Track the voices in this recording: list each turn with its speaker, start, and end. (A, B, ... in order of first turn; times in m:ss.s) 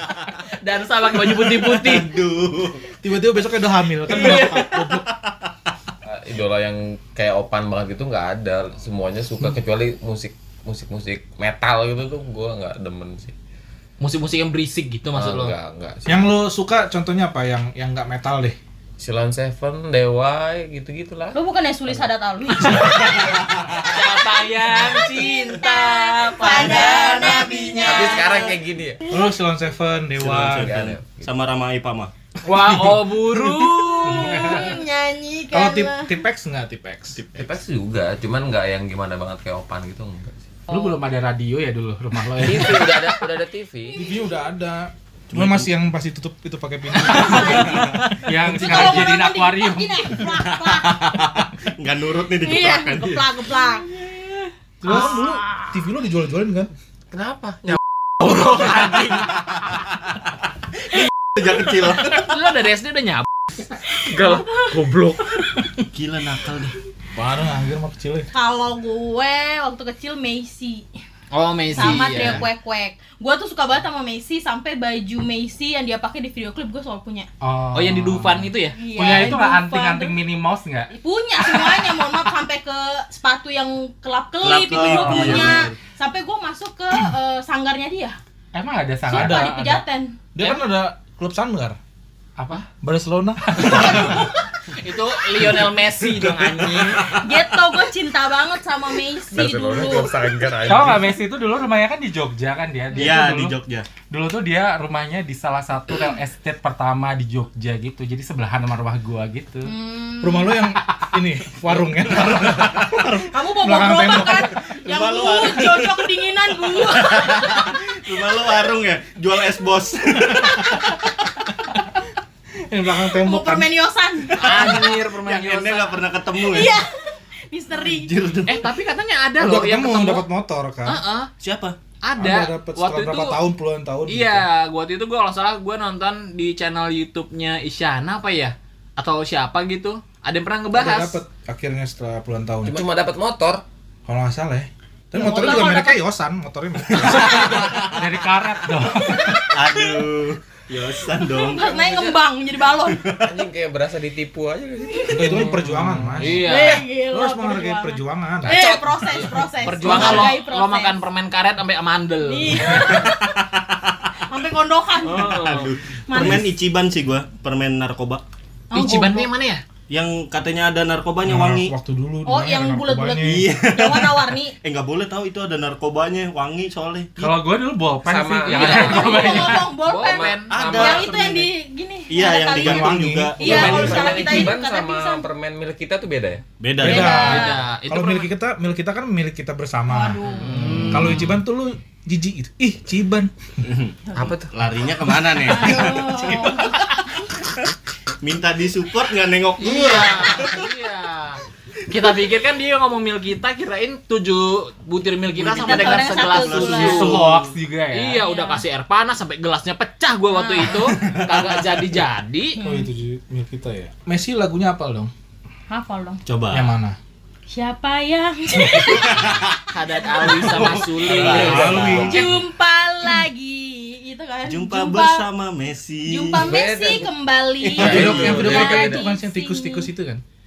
0:00.4-0:02.1 A
0:01.3-0:02.9 B
0:03.0-0:05.1 C
0:04.1-0:04.8 A
0:04.6-0:05.3 B
0:06.0-0:13.3 D
0:14.0-0:15.5 A
0:15.1-0:16.3 D
0:16.1-0:18.6 C
0:19.0-0:23.3 D
0:21.3-0:23.1 E
0:22.6-0:24.2 B
0:23.9-0:28.5 A
0:25.2-0:28.5 E
0:26.5-0:28.5 B
0:27.8-0:29.1 D
0:29.1-0:30.7 C
0:30.2-0:32.1 B
0:30.3-0:31.3 D
0:32.4-0:34.5 A
0:34.0-0:36.2 E
0:34.0-0:34.8 C
0:35.5-0:37.2 C
0:37.2-0:37.6 B
0:37.4-0:40.5 D
0:40.7-0:43.0 F
0:42.4-0:44.0 D
0:43.9-0:44.3 E
0:44.0-0:48.9 C
0:45.3-0:45.7 B
0:47.0-0:47.8 E
0:47.2-0:50.0 F
0:47.3-0:48.0 B
0:48.5-0:51.0 E
0:50.2-0:53.4 B
0:52.4-0:54.3 E
0:54.8-0:56.7 C
0:54.8-0:55.8 E
0:57.1-0:57.8 D
0:58.2-0:59.3 A
1:01.0-1:02.3 B
1:02.1-1:03.3 A
1:04.0-1:05.5 D
1:04.2-1:04.7 E
1:05.9-1:06.8 B
1:07.2-1:08.3 C
1:08.3-1:10.9 E
1:11.3-1:12.5 A
1:11.7-1:17.3 E
1:17.4-1:20.9 F
1:17.7-1:18.8 A
1:18.7-1:20.2 E
1:20.9-1:28.2 E
1:24.4-1:25.7 B
1:24.9-1:25.5 A
1:28.5-1:29.8 F
1:29.1-1:29.6 C
1:29.1-1:30.2 E
1:30.4-1:31.8 C
1:32.4-1:32.7 F
1:32.8-1:34.2 C
1:33.6-1:34.0 F
1:33.7-1:34.3 E
1:34.7-1:37.2 A
1:36.5-1:37.3 B
1:37.1-1:40.3 E
1:39.3-1:41.2 D
1:40.7-1:43.6 F
1:42.9-1:43.9 B
1:44.1-1:49.7 F
1:49.6-1:50.6 E
1:50.2-1:54.6 C
1:52.2-1:52.9 B
1:53.2-1:57.7 E
1:54.8-2:01.1 B
2:02.7-2:03.7 C
2:03.1-2:04.7 E
2:04.3-2:06.8 B
2:04.3-2:06.0 A
2:06.3-2:08.6 E
2:07.7-2:08.7 B
2:08.5-2:10.3 A
2:09.4-2:11.0 C
2:10.9-2:11.3 A
2:11.4-2:11.8 B
2:12.0-2:13.4 A
2:12.2-2:14.5 C
2:14.1-2:21.2 A
2:20.7-2:22.8 C
2:22.6-2:23.6 D
2:24.1-2:27.8 C
2:25.1-2:26.0 E
2:26.9-2:28.1 B
2:27.8-2:29.4 F
2:29.3-2:30.0 E
2:29.5-2:31.7 B
2:31.3-2:33.0 E
2:31.6-2:32.2 D
2:32.8-2:33.4 B
2:33.2-2:35.7 D
2:35.1-2:38.6 C
2:35.6-2:36.2 F
2:36.2-2:36.8 A
2:36.4-2:41.0 E
2:38.5-2:42.9 A
2:42.2-2:43.2 E
2:42.8-2:44.0 B
2:44.3-2:46.5 E
2:45.0-2:48.2 B
2:45.1-2:45.7 A
2:48.7-2:49.3 E
2:48.7-2:49.6 A
2:49.9-2:51.7 B
2:51.2-2:53.5 C
2:52.2-2:54.6 E
2:53.2-2:57.4 B
2:57.2-2:59.6 F
2:58.0-3:01.4 D
2:58.5-3:00.7 A
2:58.5-3:05.3 E
3:00.5-3:01.5 B
3:02.1-3:04.4 B
3:02.5-3:04.1 C
3:03.4-3:06.4 D
3:06.6-3:07.4 B
3:06.8-3:10.2 C
3:06.8-3:07.6 E
3:07.1-3:08.3 A
3:09.9-3:10.8 E
3:10.4-3:11.2 F
3:10.5-3:11.1 A
3:10.7-3:11.2 B
3:10.8-3:13.3 C
3:13.6-3:16.7 B
3:14.1-3:14.5 D
3:15.4-3:16.9 E
3:18.2-3:20.7 B
3:19.6-3:27.2 A
3:25.4-3:27.5 B
3:25.5-3:27.2 E
3:26.7-3:28.2 F
3:27.9-3:32.6 A
3:28.2-3:28.6 E
3:30.3-3:30.9 E
3:30.8-3:31.6 B
3:32.6-3:32.9 E
3:32.6-3:35.1 C
3:35.7-3:36.2 E
3:36.3-3:36.7 B
3:36.5-3:37.0 C
3:37.5-3:39.5 E
3:38.9-3:39.6 B
3:39.7-3:41.8 A
3:40.1-3:40.5 E
3:40.2-3:42.4 B
3:41.0-3:42.4 D
3:41.1-3:42.4 C
3:41.9-3:45.3 E
3:44.4-3:46.6 B
3:46.0-3:49.9 E
3:46.4-3:49.1 D
3:47.7-3:50.2 C
3:47.8-3:48.6 B